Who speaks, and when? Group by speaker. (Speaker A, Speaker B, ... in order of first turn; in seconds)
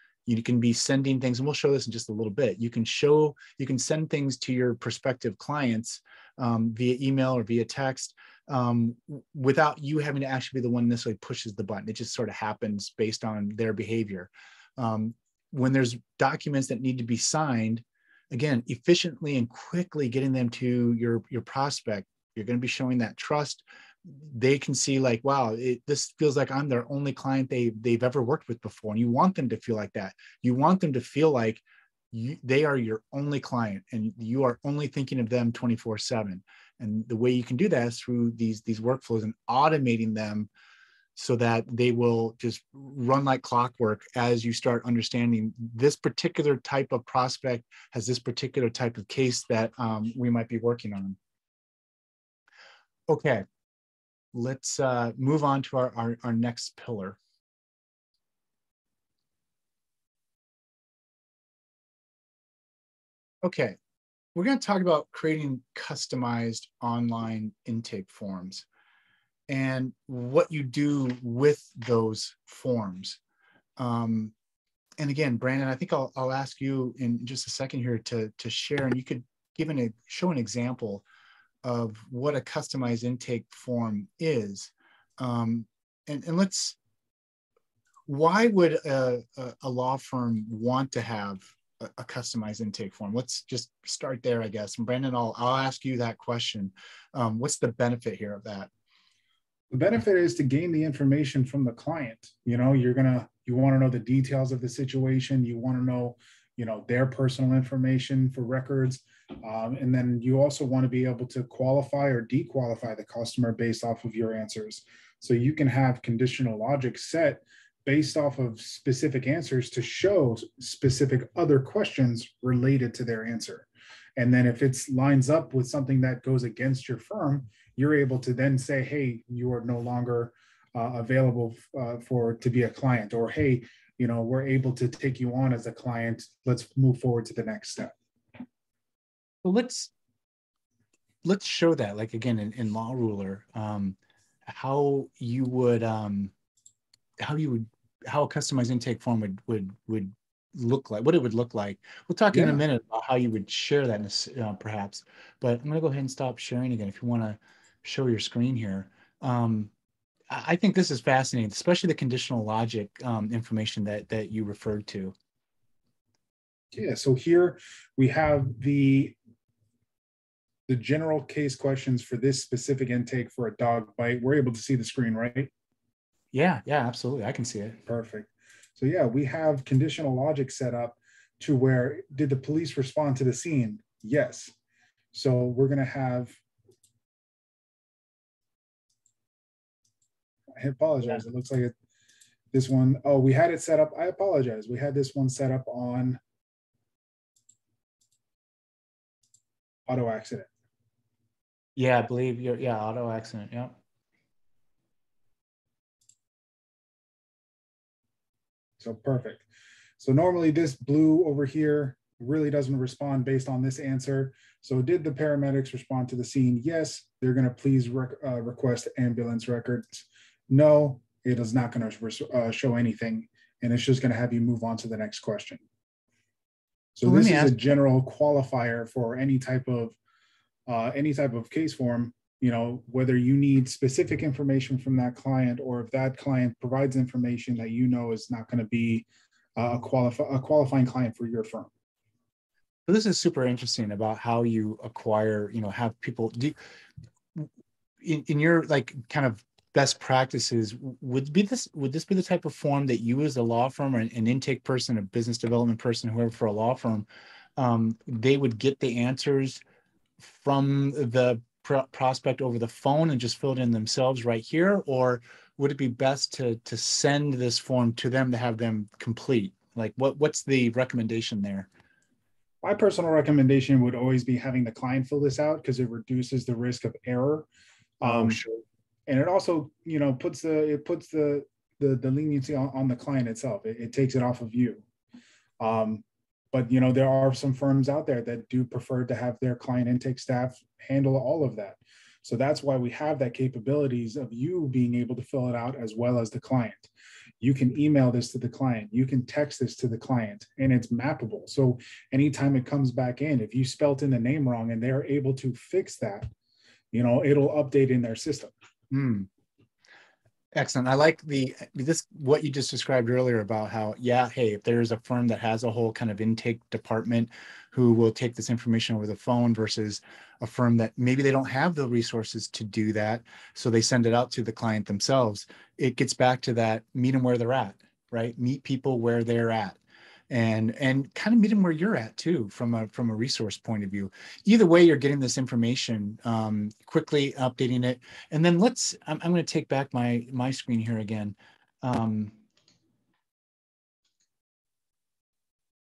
Speaker A: 0.3-40.5, 41.2-51.2, 53.1-53.5, 54.3-57.2, 63.4-63.8, 64.3-68.7, 69.5-73.2, 73.8-74.3, 75.0-81.0, 81.6-86.8, 88.1-98.7, 139.4-139.9, 141.2-146.3, 147.2-159.7, 160.3-165.1, 176.3-177.8, 201.8-203.8, 227.0-227.6, 242.9-246.6, 248.0-257.1, 257.6-259.6, 260.2-271.7, 278.0-278.6, 308.9-309.3, 310.6-329.8, 330.3-342.4
Speaker B: 99.7-137.9, 152.3-152.6, 166.7-169.2, 170.7-175.5, 177.9-184.5, 185.1-186.4, 190.6-191.7, 192.5-196.2, 199.9-200.5, 208.8-209.5, 210.0-225.6, 227.0-230.0, 230.7-239.1, 239.6-241.7, 272.6-277.5, 278.0-278.4, 279.1-284.9, 285.6-306.3, 306.9-308.5